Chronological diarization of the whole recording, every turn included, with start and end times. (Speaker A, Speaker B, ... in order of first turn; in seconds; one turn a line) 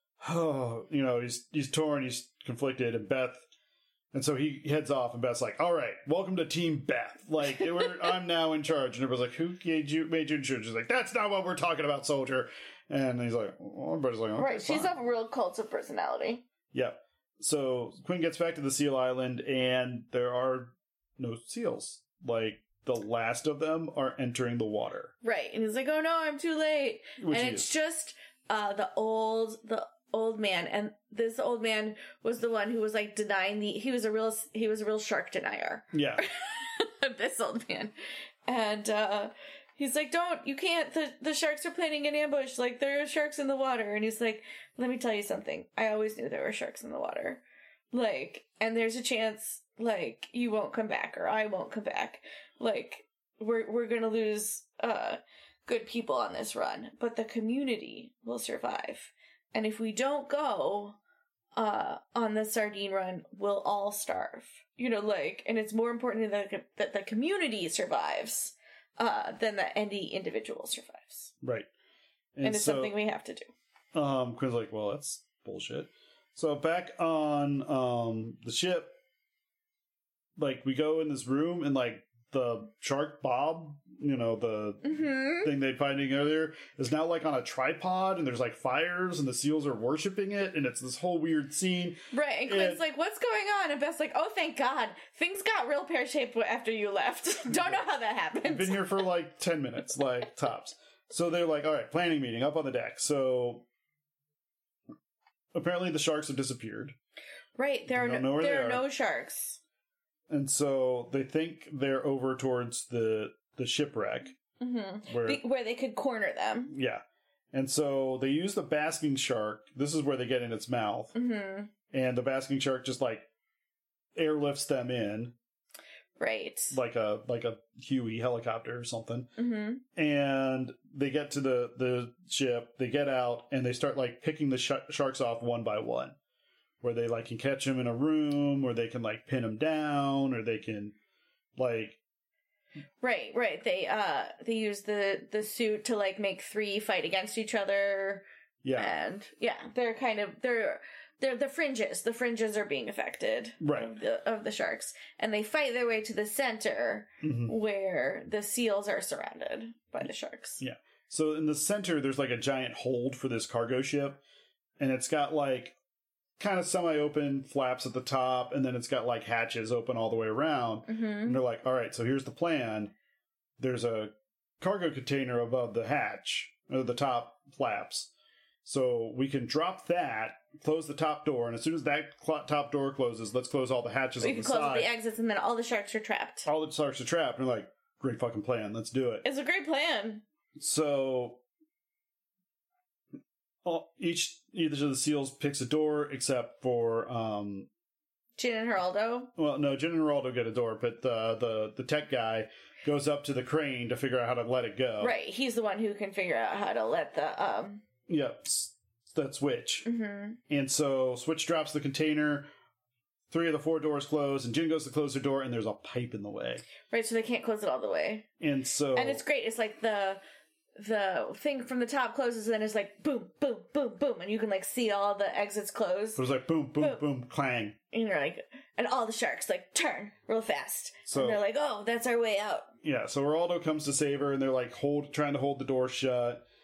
Speaker A: 0.2-3.4
Speaker A: 4.1-14.9
Speaker B: 14.4-16.4
Speaker A: 16.7-25.1
Speaker B: 25.2-37.9
Speaker A: 27.2-27.7
Speaker A: 35.9-36.2
Speaker B: 38.5-61.0
Speaker B: 61.6-71.3
Speaker A: 71.4-71.7
Speaker A: 72.4-73.0
Speaker B: 72.4-73.5
Speaker A: 73.9-78.9
Speaker A: 80.4-92.8
Speaker B: 84.8-85.5
Speaker B: 92.1-99.0
Speaker A: 98.4-103.7
Speaker A: 105.5-107.0
Speaker B: 107.6-109.6
Speaker A: 107.9-108.8
Speaker A: 110.3-114.3
Speaker B: 114.6-116.8
Speaker A: 115.1-115.4
Speaker A: 116.7-121.1
Speaker B: 121.1-121.7
Speaker A: 121.9-123.2
Speaker A: 124.2-125.3
Speaker B: 126.2-126.8
Speaker A: 126.7-129.3
Speaker B: 129.4-129.8
Speaker A: 129.9-136.2
Speaker A: 136.8-141.0
Speaker A: 141.6-142.0
Speaker B: 143.0-148.2
Speaker A: 148.6-148.9
Speaker B: 148.8-160.6
Speaker A: 153.6-154.0
Speaker A: 157.2-157.5
Speaker A: 160.6-164.2
Speaker A: 164.8-165.8
Speaker A: 166.4-172.9
Speaker B: 170.9-171.4
Speaker A: 173.6-178.1
Speaker A: 178.6-184.9
Speaker B: 184.2-186.5
Speaker A: 186.5-189.2
Speaker B: 189.2-190.2
Speaker A: 190.6-191.4
Speaker A: 193.6-197.7
Speaker B: 198.4-199.3
Speaker A: 199.4-205.2
Speaker B: 205.0-207.8
Speaker A: 208.1-209.9
Speaker B: 209.8-210.4
Speaker A: 210.5-212.5
Speaker A: 213.3-216.6
Speaker B: 216.9-218.3
Speaker A: 218.4-219.2
Speaker B: 218.9-220.2
Speaker B: 220.8-226.2
Speaker A: 226.2-227.8
Speaker B: 227.9-232.7
Speaker A: 231.1-231.4
Speaker A: 232.8-236.4